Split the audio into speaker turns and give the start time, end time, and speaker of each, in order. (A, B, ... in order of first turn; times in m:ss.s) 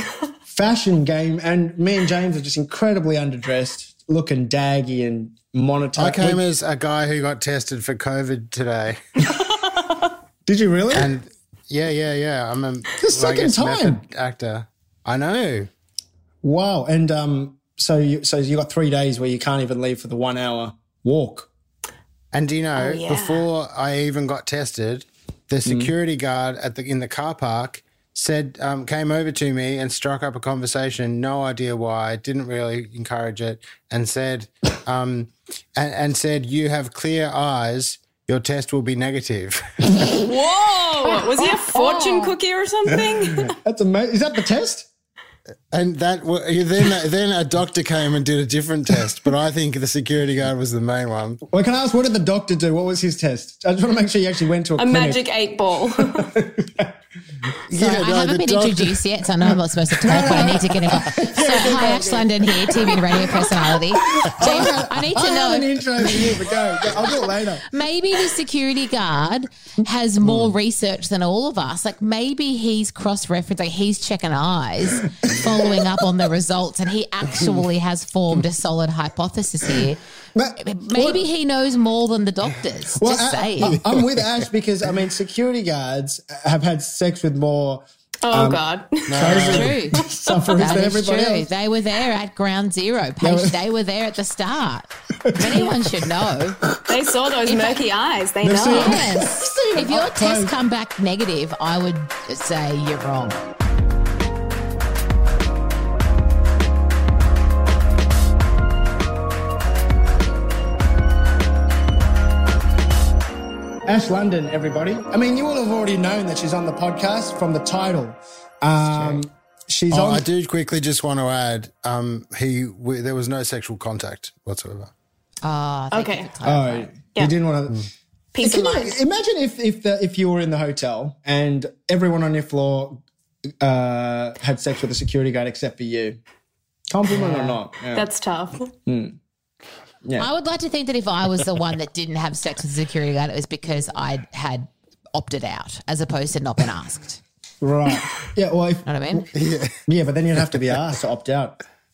0:00.5-0:06.4 A
0:06.0-0:09.0 B
0:10.4-0:11.1 A
0:10.9-0:15.7 B
0:13.0-0:14.0 A
0:16.4-0:21.5 A
0:22.3-0:40.1 B
0:22.8-0:23.5 C
0:25.6-0:25.9 A
0:40.1-0:43.5 C
0:41.3-0:42.3 D
0:42.9-0:44.9 A
0:45.7-0:51.4 B
0:51.4-0:55.2 A
0:54.8-0:56.3 C
0:56.0-0:56.9 A
0:57.7-0:59.0 B
0:57.7-1:06.5 D
0:59.4-1:07.6 A
1:00.0-1:02.0 B
1:07.0-1:20.0 D
1:10.2-1:10.5 B
1:15.2-1:15.8 A
1:20.4-1:21.2 A
1:20.6-1:23.8 D
1:22.9-1:31.5 A
1:23.6-1:24.4 B
1:28.2-1:29.4 C
1:29.1-1:29.8 B
1:29.3-1:30.0 D
1:30.3-1:30.7 C
1:30.6-1:36.6 D
1:33.2-1:33.6 A
1:35.3-1:35.8 A
1:36.9-1:39.1 C
1:37.4-1:37.8 D
1:38.4-1:40.6 A
1:38.7-1:43.4 D
1:53.9-2:00.3 A
1:58.8-1:59.2 D
1:59.9-2:04.9 B
2:05.4-2:06.9 D
2:05.9-2:06.3 C
2:06.4-2:07.9 A
2:08.3-2:09.0 C
2:08.4-2:13.0 A
2:13.6-2:16.2 A
2:16.9-2:18.1 A
2:17.1-2:17.6 D
2:17.9-2:18.7 C
2:18.8-2:19.2 A
2:20.2-2:27.2 D
2:27.6-2:29.2 A
2:28.8-2:29.3 D
2:29.3-2:29.7 B
2:29.9-2:31.6 A